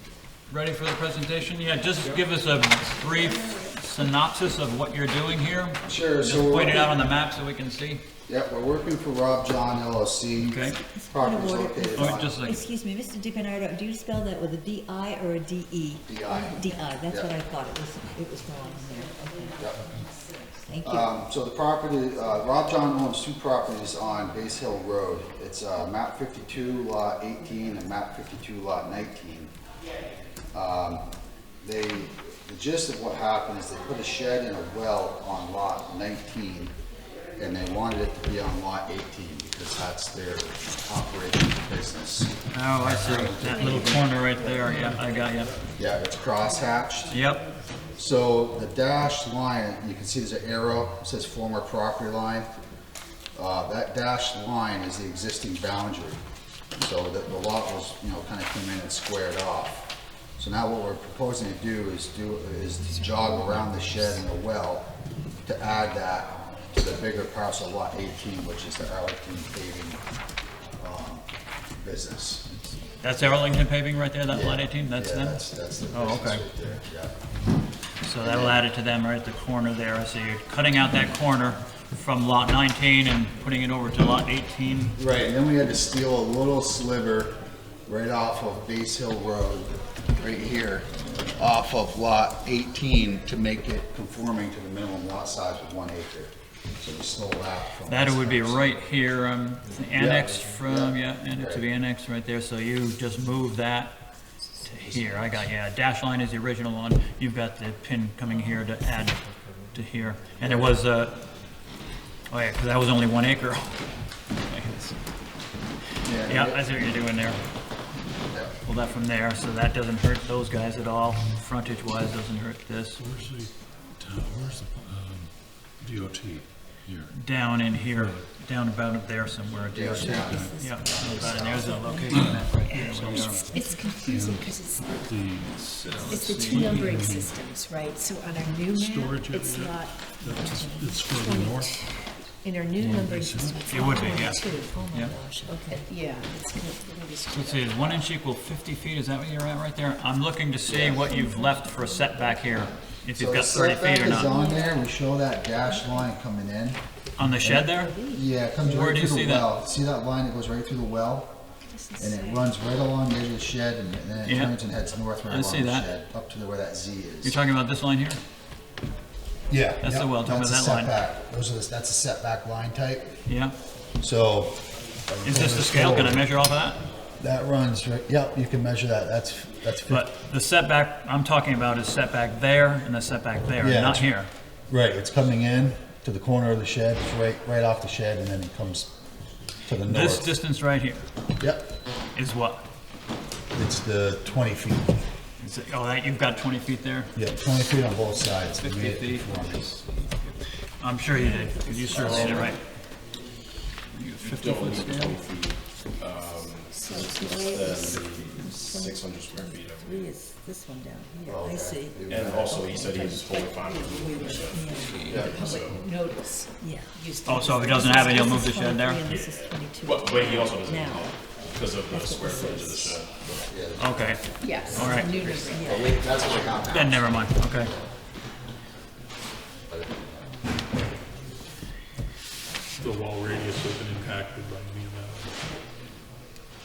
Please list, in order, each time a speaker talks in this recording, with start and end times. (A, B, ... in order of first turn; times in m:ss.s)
0:00.5-0:08.0 A
0:05.9-0:07.1 B
0:08.3-0:12.4 B
0:10.4-0:10.8 A
0:11.0-0:19.8 C
0:12.0-0:12.6 A
0:16.1-0:17.3 B
0:19.6-0:19.9 B
0:20.6-0:21.2 C
0:20.8-0:29.5 B
0:30.5-0:31.1 B
0:31.6-0:36.7 B
0:37.4-0:44.8 B
0:42.5-0:45.6 A
0:45.8-0:47.3 B
0:47.1-0:47.4 A
0:48.0-0:52.5 B
0:53.4-0:56.2 B
0:56.8-1:04.9 B
1:05.4-1:10.0 B
1:10.8-1:11.3 B
1:11.8-1:12.5 B
1:13.0-1:15.4 A
1:14.3-1:17.1 B
1:15.9-1:16.5 A
1:18.0-1:25.0 A
1:18.2-1:18.6 B
1:25.0-1:27.4 B
1:27.9-1:38.8 B
1:37.9-1:44.0 A
1:39.9-1:41.6 B
1:44.6-1:49.2 A
1:49.7-1:51.2 A
1:50.4-1:50.8 B
1:52.3-1:53.8 A
1:54.5-1:55.0 A
1:56.0-1:56.7 B
1:56.3-1:57.4 A
1:58.3-1:58.5 B
1:58.6-2:03.0 A
2:03.0-2:07.2 D
2:07.1-2:13.4 A
2:07.7-2:08.2 D
2:09.7-2:11.8 B
2:10.0-2:12.1 C
2:10.2-2:10.9 D
2:12.7-2:15.2 E
2:12.7-2:17.3 D
2:13.5-2:13.9 C
2:15.6-2:16.9 A
2:16.1-2:24.9 E
2:18.7-2:22.1 D
2:22.8-2:24.3 D
2:23.7-2:25.2 A
2:24.3-2:25.9 C
2:25.4-2:28.0 E
2:27.3-2:34.4 A
2:30.7-2:31.2 B
2:33.2-2:36.8 B
2:37.2-2:37.9 A
2:37.4-2:41.4 B
2:38.6-2:39.5 A
2:41.7-2:42.5 E
2:42.0-2:47.4 B
2:44.2-2:44.6 A
2:45.3-2:45.9 A
2:47.2-2:48.2 A
2:49.5-2:53.2 B
2:49.8-2:50.9 A
2:53.3-2:53.6 A
2:54.0-2:56.2 B
2:55.2-2:56.8 A
2:57.2-3:00.1 B
2:59.9-3:04.3 A
3:03.6-3:04.1 B
3:04.7-3:08.9 B
3:09.7-3:10.3 B
3:09.9-3:11.0 A
3:11.4-3:11.7 B
3:12.2-3:12.6 A
3:13.5-3:15.0 B
3:15.4-3:17.1 A
3:17.2-3:19.7 B
3:18.6-3:22.6 A
3:21.2-3:22.4 C
3:21.9-3:22.5 F
3:21.9-3:22.5 B
3:23.9-3:25.2 A
3:24.2-3:30.1 F
3:26.8-3:35.3 C
3:31.3-3:32.6 B
3:32.0-3:35.9 F
3:34.2-3:38.5 E
3:35.1-3:35.5 B
3:36.6-3:36.9 C
3:37.3-3:39.0 A
3:37.8-3:41.2 C
3:39.0-3:43.6 F
3:41.7-3:43.0 C
3:43.5-3:44.2 B
3:43.8-3:45.6 A
3:44.4-3:46.0 E
3:44.7-3:45.1 B
3:45.5-3:46.0 C
3:45.6-3:47.7 B
3:46.7-3:47.7 A
3:49.7-3:50.3 B
3:52.8-3:55.3 D